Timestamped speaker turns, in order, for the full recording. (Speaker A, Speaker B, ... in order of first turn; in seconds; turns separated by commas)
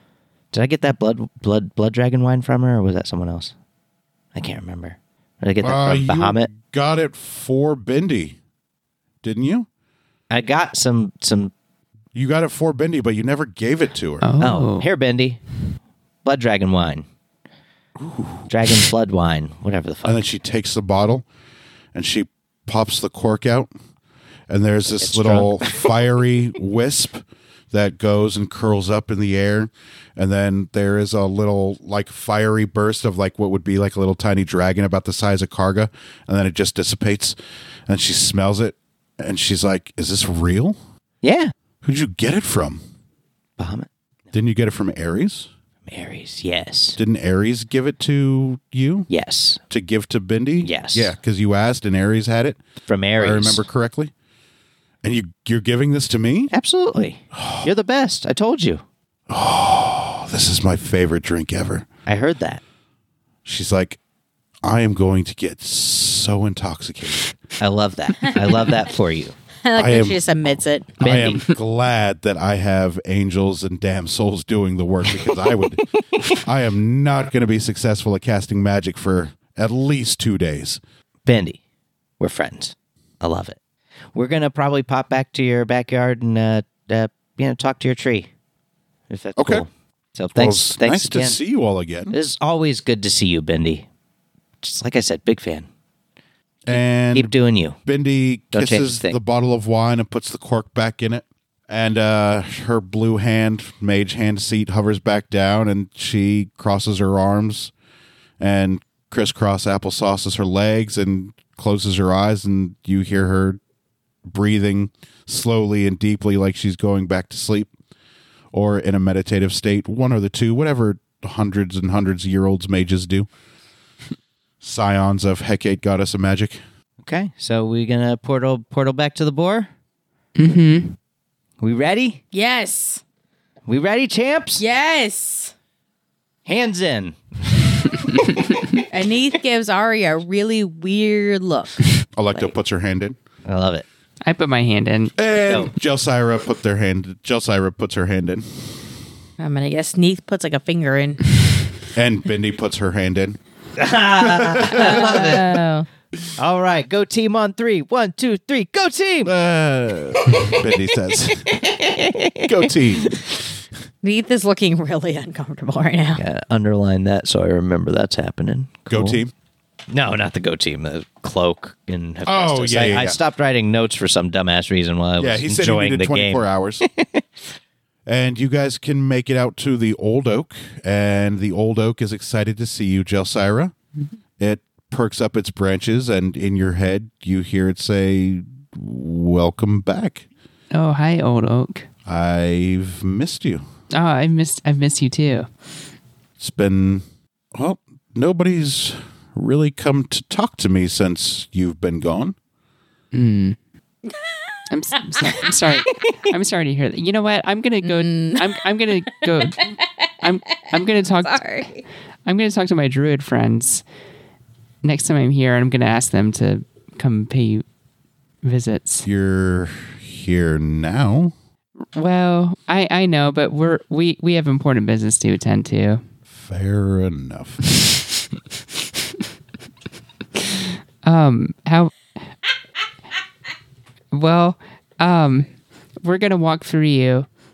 Speaker A: 0.5-3.5, Speaker A: 4.3-6.5, Speaker B: 5.6-8.4, Speaker B: 9.2-9.7, Speaker A: 10.3-11.5, Speaker B: 12.1-14.3, Speaker C: 14.2-14.9, Speaker A: 14.4-15.4, Speaker A: 16.2-17.0, Speaker B: 18.0-18.5, Speaker A: 18.5-20.2, Speaker B: 20.0-21.2, Speaker B: 21.9-23.7, Speaker B: 24.5-37.4, Speaker A: 24.9-26.0, Speaker B: 37.9-40.8, Speaker A: 41.2-41.5, Speaker B: 41.8-42.8, Speaker A: 43.6-43.9, Speaker B: 44.3-45.5, Speaker A: 45.9-47.0, Speaker B: 47.0-49.1, Speaker A: 49.1-49.6, Speaker B: 49.7-52.6, Speaker A: 50.6-51.1, Speaker A: 52.9-53.6, Speaker B: 53.2-54.1, Speaker B: 55.0-56.5, Speaker A: 56.5-58.8, Speaker B: 57.3-57.7, Speaker B: 59.3-61.9, Speaker A: 62.0-62.6, Speaker B: 63.4-64.0, Speaker B: 64.6-67.4, Speaker A: 67.6-69.3, Speaker D: 69.6-70.9, Speaker B: 69.8-70.2, Speaker B: 71.0-80.8, Speaker A: 71.0-71.4, Speaker A: 81.2-81.6, Speaker A: 82.2-83.6, Speaker A: 84.1-88.3, Speaker A: 89.1-91.4, Speaker B: 89.4-89.6, Speaker B: 90.3-92.2, Speaker A: 92.1-93.8, Speaker A: 94.6-95.7, Speaker B: 96.7-97.3, Speaker A: 96.7-97.8, Speaker B: 97.8-107.7, Speaker A: 98.5-99.1, Speaker B: 108.4-113.6, Speaker B: 114.2-117.7, Speaker B: 118.5-123.3, Speaker B: 124.6-126.6, Speaker A: 127.0-129.7, Speaker C: 130.3-130.9, Speaker A: 131.6-132.2, Speaker D: 132.3-133.0, Speaker A: 133.7-134.6, Speaker D: 134.6-135.5, Speaker A: 136.4-137.9, Speaker D: 138.9-141.8, Speaker B: 142.1-143.2, Speaker A: 143.4-143.8, Speaker C: 144.2-145.1, Speaker B: 145.2-148.8, Speaker A: 145.5-145.7, Speaker D: 149.4-151.2, Speaker B: 151.9-153.4, Speaker A: 153.8-155.6, Speaker B: 154.2-155.4, Speaker D: 154.8-155.9, Speaker A: 156.3-159.3, Speaker B: 159.2-161.6, Speaker A: 161.5-162.7, Speaker B: 162.4-163.2, Speaker D: 164.0-166.2, Speaker A: 166.2-169.2, Speaker B: 168.9-169.3, Speaker A: 169.9-177.2, Speaker B: 172.2-173.2, Speaker B: 175.2-176.8, Speaker B: 178.1-183.7, Speaker B: 184.4-190.2, Speaker C: 190.7-191.9, Speaker B: 192.1-193.6, Speaker C: 193.9-195.5, Speaker B: 196.4-197.0, Speaker B: 197.5-202.3, Speaker C: 203.1-203.6, Speaker C: 204.7-211.4, Speaker D: 207.8-208.6, Speaker D: 211.2-211.8, Speaker C: 212.2-213.8, Speaker C: 214.8-217.6, Speaker C: 218.4-219.1, Speaker B: 219.1-221.3, Speaker C: 221.9-226.0, Speaker B: 226.3-227.6, Speaker C: 230.5-232.1, Speaker C: 234.1-235.5, Speaker C: 236.0-237.3